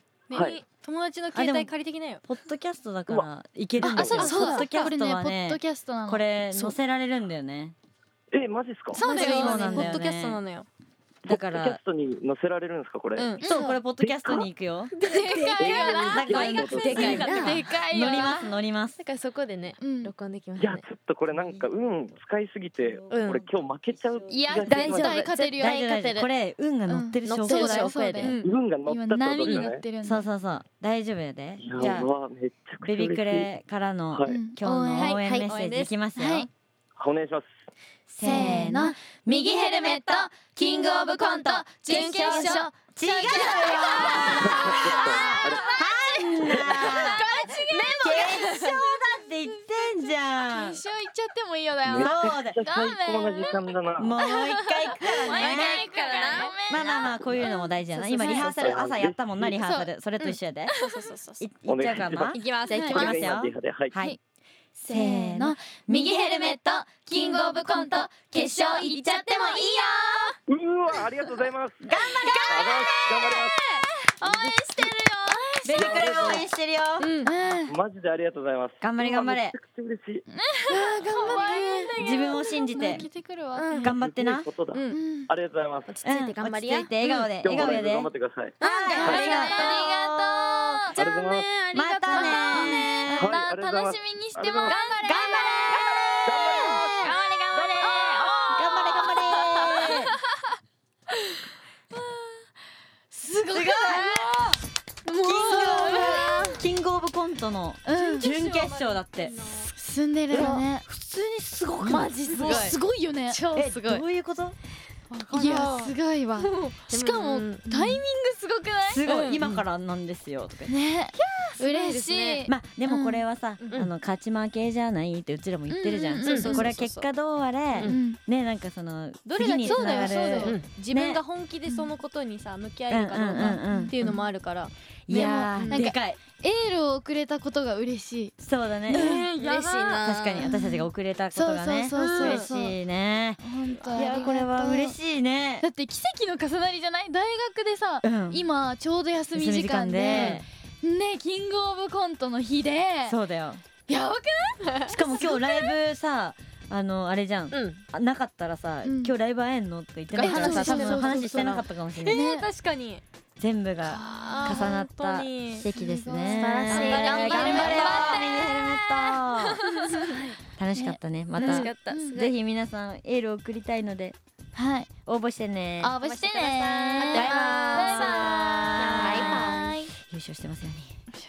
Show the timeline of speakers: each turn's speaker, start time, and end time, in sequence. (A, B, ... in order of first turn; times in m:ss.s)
0:00.3-0:02.2 A
0:00.3-0:00.6 B
0:01.3-0:01.7 C
0:02.2-0:07.8 C
0:03.8-0:06.3 D
0:03.8-0:04.9 A
0:08.3-0:09.0 B
0:08.9-0:10.0 D
0:08.9-0:10.7 A
0:09.0-0:10.4 C
0:11.3-0:11.8 C
0:11.3-0:13.3 B
0:13.2-0:13.5 A
0:13.4-0:13.8 D
0:13.4-0:15.0 C
0:14.1-0:14.3 B
0:14.9-0:17.6 A
0:15.0-0:18.5 D
0:15.6-0:17.2 B
0:16.0-0:19.0 C
0:16.8-0:17.6 E
0:19.0-0:20.8 E
0:19.8-0:20.1 D
0:20.6-0:25.1 B
0:21.3-0:21.6 C
0:22.8-0:28.3 C
0:23.1-0:23.4 E
0:24.3-0:25.9 D
0:24.7-0:26.3 E
0:26.9-0:30.3 D
0:27.2-0:28.5 E
0:28.2-0:28.5 A
0:28.5-0:29.8 B
0:30.0-0:32.1 C
0:31.6-0:33.4 B
0:32.8-0:36.5 C
0:34.3-0:35.2 D
0:35.0-0:35.5 A
0:35.0-0:35.9 E
0:36.1-0:36.5 D
0:37.0-0:37.5 B
0:38.1-0:40.3 C
0:38.2-0:48.8 D
0:41.8-0:42.7 A
0:41.9-0:50.8 C
0:43.2-0:43.9 A
0:44.4-0:45.6 B
0:46.9-0:48.5 A
0:49.8-0:58.7 D
0:51.9-0:54.2 B
0:51.9-0:52.6 C
0:54.0-0:55.9 C
0:55.2-0:56.6 A
0:56.1-0:56.4 E
0:56.7-1:00.7 C
0:58.2-0:59.6 B
0:59.6-0:59.9 D
1:00.2-1:01.5 A
1:00.7-1:01.0 D
1:01.4-1:04.2 C
1:01.7-1:03.9 B
1:02.3-1:03.1 A
1:02.7-1:03.2 E
1:04.8-1:06.3 C
1:04.8-1:10.4 D
1:07.2-1:10.4 A
1:10.5-1:11.8 B
1:11.8-1:13.3 C
1:12.0-1:16.4 D
1:12.5-1:13.6 B
1:14.2-1:14.5 B
1:15.6-1:17.1 C
1:15.8-1:16.5 B
1:17.0-1:17.3 A
1:17.2-1:17.8 D
1:17.7-1:20.2 B
1:18.8-1:19.6 C
1:20.3-1:23.8 D
1:20.7-1:21.9 A
1:21.2-1:23.1 C
1:22.8-1:23.1 A
1:23.5-1:23.9 E
1:23.8-1:24.5 C
1:23.9-1:25.9 B
1:24.7-1:25.0 A
1:24.9-1:25.3 D
1:25.9-1:26.9 E
1:26.0-1:30.9 C
1:27.2-1:29.2 B
1:28.6-1:29.0 E
1:28.9-1:29.8 A
1:28.9-1:31.0 D
1:31.0-1:31.6 B
1:31.0-1:32.7 A
1:31.7-1:33.4 C
1:32.1-1:36.2 D
1:33.2-1:34.7 B
1:35.0-1:36.8 C
1:36.3-1:38.4 B
1:37.0-1:40.1 D
1:38.5-1:40.1 C
1:43.1-1:44.6 D
1:43.5-1:44.3 C
1:45.0-1:46.6 A
1:45.2-1:49.3 C
1:45.5-1:46.4 D
1:47.8-1:48.3 D
1:47.9-1:49.7 A
1:49.7-1:50.9 D
1:50.3-1:50.6 E
1:50.4-1:52.8 C
1:51.9-1:54.0 A
1:52.3-1:53.4 D
1:53.5-1:54.6 C
1:55.1-1:57.5 A
1:55.3-1:56.5 D
1:56.9-1:58.0 E
1:57.7-1:59.0 D
1:58.9-2:00.7 C
1:59.0-1:59.4 A
1:59.4-1:59.6 E
2:00.7-2:03.3 D
2:01.2-2:02.5 A
2:02.5-2:11.2 C
2:03.6-2:03.9 A
2:05.7-2:06.7 D
2:06.2-2:07.1 A
2:06.3-2:06.6 E
2:07.8-2:08.2 D
2:09.2-2:14.7 A
2:09.7-2:10.4 D
2:09.7-2:10.7 E
2:11.7-2:11.9 D
2:12.9-2:14.1 C
2:13.7-2:14.3 D
2:15.1-2:16.2 C
2:15.1-2:22.8 D
2:18.4-2:19.2 C
2:18.9-2:20.1 A
2:19.4-2:20.5 E
2:20.0-2:23.4 C
2:22.0-2:22.4 A
2:23.4-2:25.0 D
2:23.8-2:24.2 A
2:24.0-2:25.6 C
2:25.6-2:33.2 D
2:28.0-2:28.4 C
2:29.3-2:30.5 C
2:33.1-2:33.6 C
2:33.9-2:35.7 D
2:34.6-2:35.0 A
2:34.9-2:42.2 C
2:37.5-2:37.8 E
2:38.8-2:39.1 D
2:40.1-2:43.0 A
2:40.2-2:41.5 D
2:41.3-2:41.6 E
2:42.1-2:42.5 D
2:43.4-2:49.6 C
2:43.9-2:45.7 A
2:44.0-2:44.8 D
2:45.7-2:48.3 D
2:46.3-2:48.2 E
2:46.6-2:49.0 A
2:49.5-2:50.3 A
2:49.9-2:50.2 D
2:50.6-2:54.2 C
2:50.7-2:52.2 D
2:51.4-2:52.2 A
2:51.8-2:52.3 E
2:54.5-2:54.9 D
2:55.1-2:56.0 C
2:55.8-2:58.4 D
2:56.0-2:59.8 E
2:57.0-2:59.8 A
2:57.1-3:01.0 C
2:59.0-2:59.9 D